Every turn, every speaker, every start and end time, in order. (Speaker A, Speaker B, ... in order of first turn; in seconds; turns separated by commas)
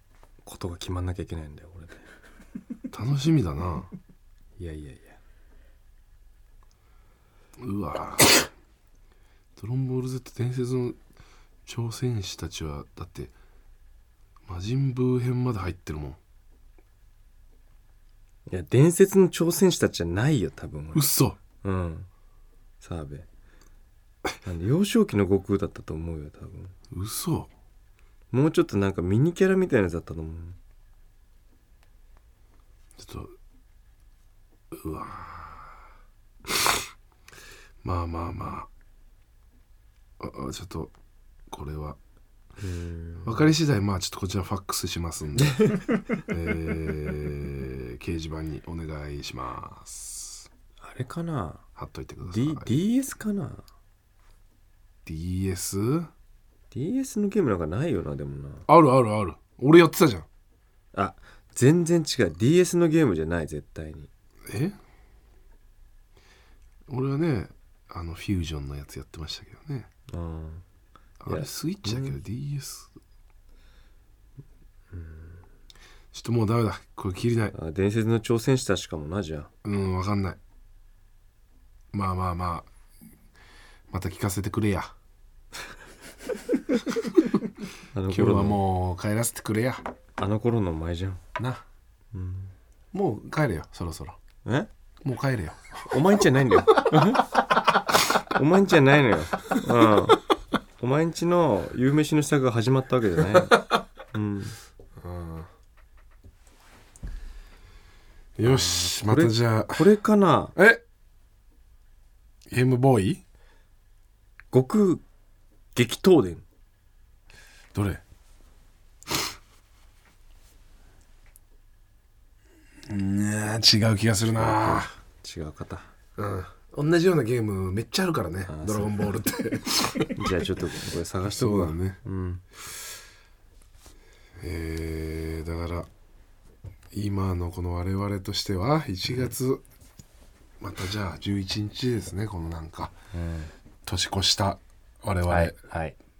Speaker A: 0.4-2.1, Speaker B: 2.9-3.9, Speaker A: 4.6-5.2, Speaker B: 7.6-8.5, Speaker B: 9.6-11.0, Speaker B: 11.7-13.3, Speaker B: 14.5-16.2, Speaker A: 18.5-21.1, Speaker B: 20.9-21.4, Speaker A: 21.6-22.1, Speaker A: 22.8-23.2, Speaker A: 24.4-26.7, Speaker B: 26.9-27.5, Speaker A: 28.3-30.6, Speaker B: 33.0-33.3, Speaker B: 34.7-35.8, Speaker B: 37.8-38.7, Speaker B: 40.2-40.9, Speaker B: 41.5-42.0, Speaker A: 42.6-43.5, Speaker B: 43.2-50.5, Speaker A: 45.5-46.2, Speaker A: 50.8-51.6, Speaker B: 51.8-52.7, Speaker A: 52.3-53.6, Speaker B: 55.0-56.1, Speaker A: 56.7-58.6, Speaker B: 58.7-60.2, Speaker A: 60.9-64.1, Speaker B: 64.5-64.8, Speaker B: 66.9-69.9, Speaker A: 70.1-70.6, Speaker B: 71.2-72.9, Speaker A: 71.2-72.2, Speaker A: 74.9-75.4, Speaker B: 76.1-77.5, Speaker A: 77.5-79.5, Speaker B: 79.6-80.4, Speaker B: 81.9-82.7, Speaker B: 83.9-84.9, Speaker A: 87.9-88.6, Speaker B: 88.1-89.8, Speaker A: 90.2-91.2, Speaker B: 91.4-91.6, Speaker A: 92.1-92.5, Speaker B: 92.9-94.2, Speaker A: 94.4-94.7, Speaker B: 95.0-95.6, Speaker A: 95.8-97.3, Speaker A: 98.3-100.2, Speaker A: 100.8-104.5, Speaker B: 105.0-105.5, Speaker B: 108.4-109.8, Speaker A: 108.4-110.5, Speaker B: 110.5-110.8, Speaker B: 112.5-113.2, Speaker A: 114.5-115.0, Speaker A: 115.7-116.4, Speaker B: 117.7-118.0, Speaker B: 122.9-124.9, Speaker A: 124.3-125.9, Speaker B: 126.2-130.2, Speaker A: 128.5-129.2, Speaker A: 130.2-132.4, Speaker B: 131.2-132.0, Speaker B: 134.4-135.9, Speaker B: 136.9-139.6, Speaker A: 139.1-139.3, Speaker B: 140.6-142.9, Speaker A: 143.1-143.5, Speaker B: 143.8-145.6, Speaker A: 145.3-146.0